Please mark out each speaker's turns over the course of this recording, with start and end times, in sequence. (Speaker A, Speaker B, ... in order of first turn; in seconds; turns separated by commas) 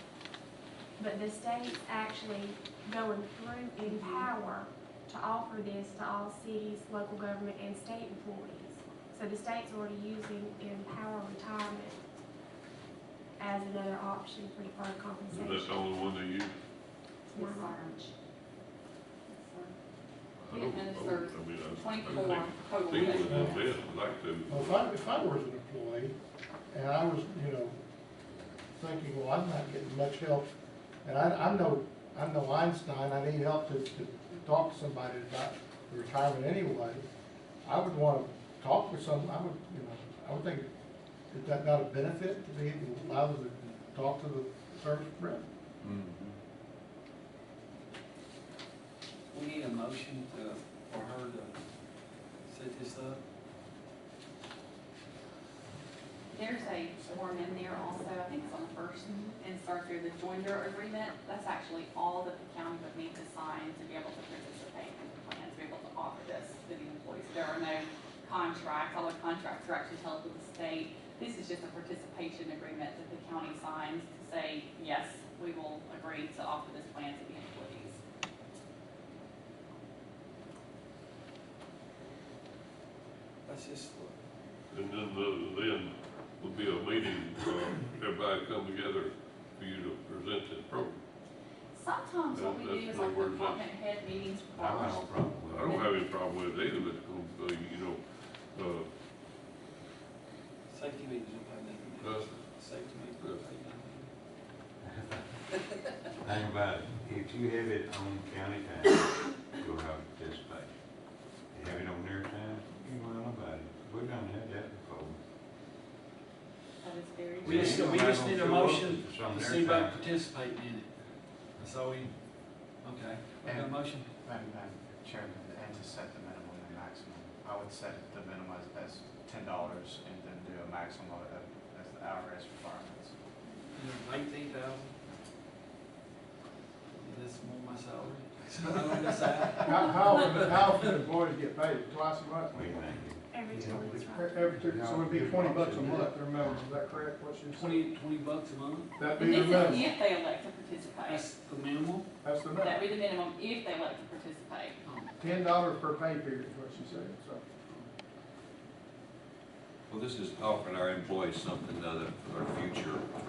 Speaker A: 1.0-12.0, Speaker B: 3.9-4.2, Speaker A: 13.4-15.9, Speaker C: 15.3-16.5, Speaker A: 17.3-18.1, Speaker B: 17.3-18.0, Speaker B: 19.3-19.7, Speaker C: 20.4-24.9, Speaker B: 20.5-23.7, Speaker D: 23.2-23.6, Speaker D: 24.5-26.1, Speaker D: 26.7-27.8, Speaker D: 28.8-30.5, Speaker D: 31.0-37.1, Speaker D: 37.6-40.7, Speaker D: 41.3-45.4, Speaker E: 45.8-46.3, Speaker F: 49.3-51.5, Speaker F: 52.5-53.2, Speaker B: 56.3-78.0, Speaker F: 83.5-84.2, Speaker C: 84.7-91.0, Speaker B: 91.7-95.9, Speaker C: 92.3-93.7, Speaker G: 94.5-95.8, Speaker C: 95.5-98.0, Speaker C: 98.5-98.9, Speaker F: 100.7-104.1, Speaker C: 102.0-102.5, Speaker C: 103.2-103.5, Speaker G: 104.8-105.2, Speaker G: 106.2-110.7, Speaker G: 111.5-115.2, Speaker B: 116.8-118.1, Speaker G: 117.4-120.1, Speaker F: 117.4-120.9, Speaker F: 121.6-122.1, Speaker F: 122.8-124.1, Speaker H: 123.4-133.1, Speaker F: 133.7-134.9, Speaker F: 136.9-140.9, Speaker I: 139.6-142.8, Speaker G: 142.5-144.1, Speaker A: 143.3-144.8, Speaker I: 144.1-147.9, Speaker G: 144.6-146.6, Speaker F: 147.5-149.0, Speaker I: 149.0-149.9, Speaker B: 149.1-151.3, Speaker F: 151.1-152.1, Speaker I: 152.2-152.8, Speaker B: 152.6-154.8, Speaker F: 154.8-155.1, Speaker I: 155.2-157.4, Speaker E: 159.9-163.1